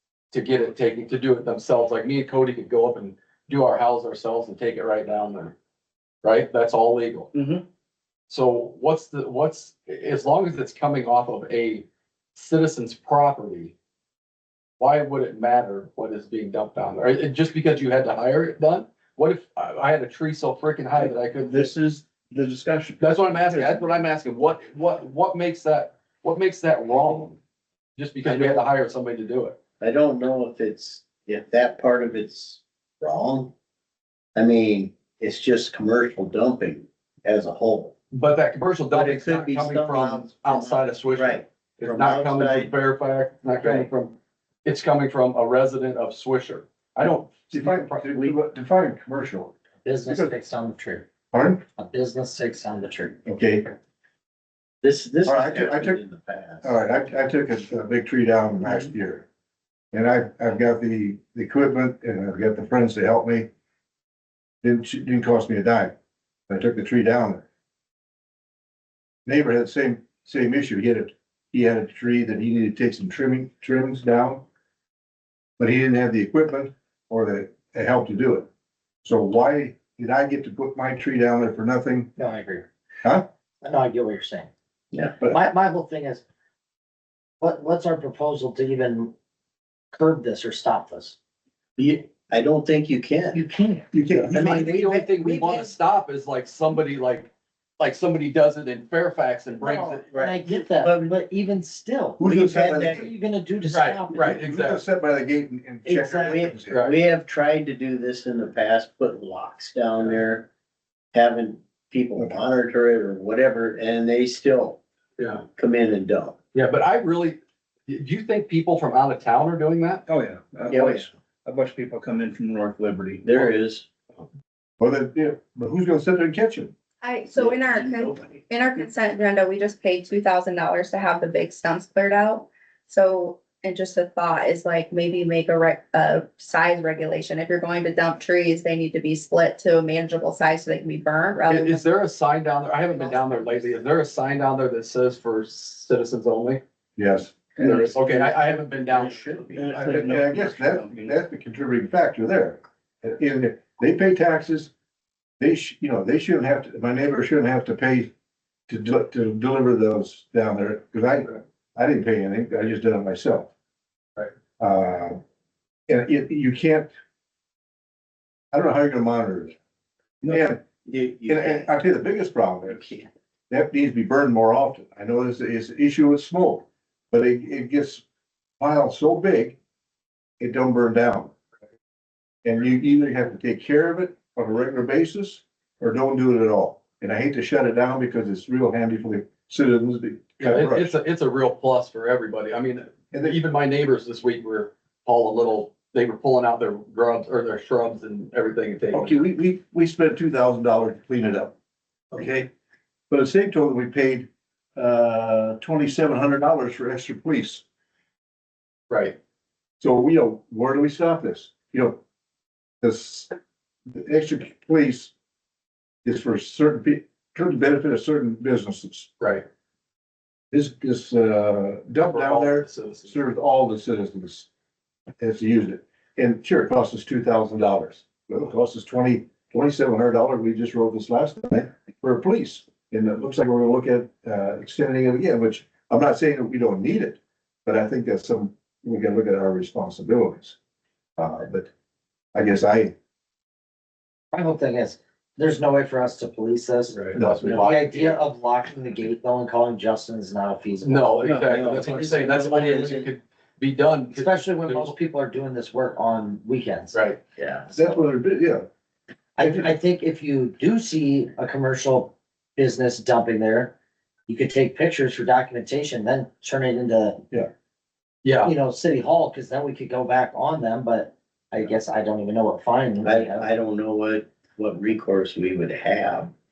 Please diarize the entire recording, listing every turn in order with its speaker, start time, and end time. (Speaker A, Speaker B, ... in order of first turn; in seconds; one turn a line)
Speaker A: 0.3-5.5
Speaker A: 6.2-7.3
Speaker B: 7.3-7.6
Speaker A: 8.3-13.7
Speaker A: 14.8-21.7
Speaker B: 21.0-24.0
Speaker A: 23.0-27.4
Speaker A: 28.0-29.6
Speaker C: 28.2-28.6
Speaker C: 29.8-33.5
Speaker C: 34.4-37.9
Speaker A: 38.1-48.3
Speaker C: 38.9-42.7
Speaker D: 47.5-50.3
Speaker E: 49.8-51.1
Speaker D: 51.3-51.6
Speaker E: 51.7-53.2
Speaker D: 53.2-53.8
Speaker C: 54.8-56.7
Speaker D: 55.2-56.0
Speaker D: 56.6-59.2
Speaker D: 59.9-63.5
Speaker D: 64.6-65.9
Speaker D: 66.5-67.4
Speaker D: 69.2-74.5
Speaker D: 75.6-78.5
Speaker D: 79.0-82.1
Speaker E: 82.2-82.7
Speaker E: 83.6-84.5
Speaker E: 85.2-86.2
Speaker E: 87.4-89.1
Speaker E: 89.9-91.2
Speaker C: 91.8-93.4
Speaker E: 93.3-93.9
Speaker D: 93.9-94.8
Speaker A: 94.1-100.0
Speaker C: 94.3-95.0
Speaker E: 95.2-95.7
Speaker E: 99.6-104.4
Speaker C: 100.1-101.1
Speaker D: 102.2-103.1
Speaker C: 102.2-103.0
Speaker A: 103.7-104.8
Speaker D: 104.4-106.9
Speaker E: 105.8-106.5
Speaker C: 106.2-110.5
Speaker C: 111.1-114.8
Speaker D: 112.2-112.4
Speaker A: 115.2-115.4
Speaker C: 115.5-116.3
Speaker A: 116.5-120.0
Speaker B: 120.1-123.5
Speaker C: 120.7-121.1
Speaker C: 123.2-123.9
Speaker D: 124.8-126.7
Speaker F: 127.0-141.8
Speaker C: 127.3-128.1
Speaker A: 141.5-146.6
Speaker E: 143.2-143.8
Speaker D: 147.0-147.9
Speaker B: 147.6-148.3
Speaker A: 147.7-149.6
Speaker C: 149.2-149.6
Speaker B: 149.5-151.2
Speaker D: 149.7-154.7
Speaker D: 155.4-158.1
Speaker D: 158.7-163.5
Speaker D: 164.6-165.2
Speaker D: 165.9-166.9
Speaker D: 168.5-169.6
Speaker D: 170.3-170.6
Speaker C: 170.8-171.7
Speaker D: 171.2-172.9
Speaker C: 172.7-173.1
Speaker D: 173.5-178.0
Speaker D: 178.6-179.6
Speaker D: 180.4-181.3
Speaker D: 182.4-190.9
Speaker A: 190.4-199.2
Speaker D: 193.1-193.4
Speaker D: 198.9-201.5
Speaker D: 202.1-202.5
Speaker D: 203.1-207.6
Speaker A: 208.9-209.2
Speaker D: 209.8-212.0
Speaker D: 212.8-213.3
Speaker D: 213.9-215.1
Speaker D: 216.0-219.1
Speaker A: 219.2-219.4
Speaker D: 220.5-224.5
Speaker A: 222.0-223.2
Speaker D: 225.2-240.6
Speaker D: 241.2-241.7
Speaker D: 242.3-242.9
Speaker E: 244.3-251.9
Speaker A: 246.9-247.8
Speaker D: 247.1-248.2
Speaker C: 247.4-247.7
Speaker A: 250.8-254.9
Speaker C: 251.2-253.1
Speaker E: 254.1-258.0
Speaker A: 256.9-257.2
Speaker D: 257.7-258.6
Speaker E: 259.4-263.7
Speaker D: 259.4-259.7
Speaker E: 264.3-267.2
Speaker A: 268.2-268.5
Speaker E: 268.4-273.5
Speaker C: 273.0-276.3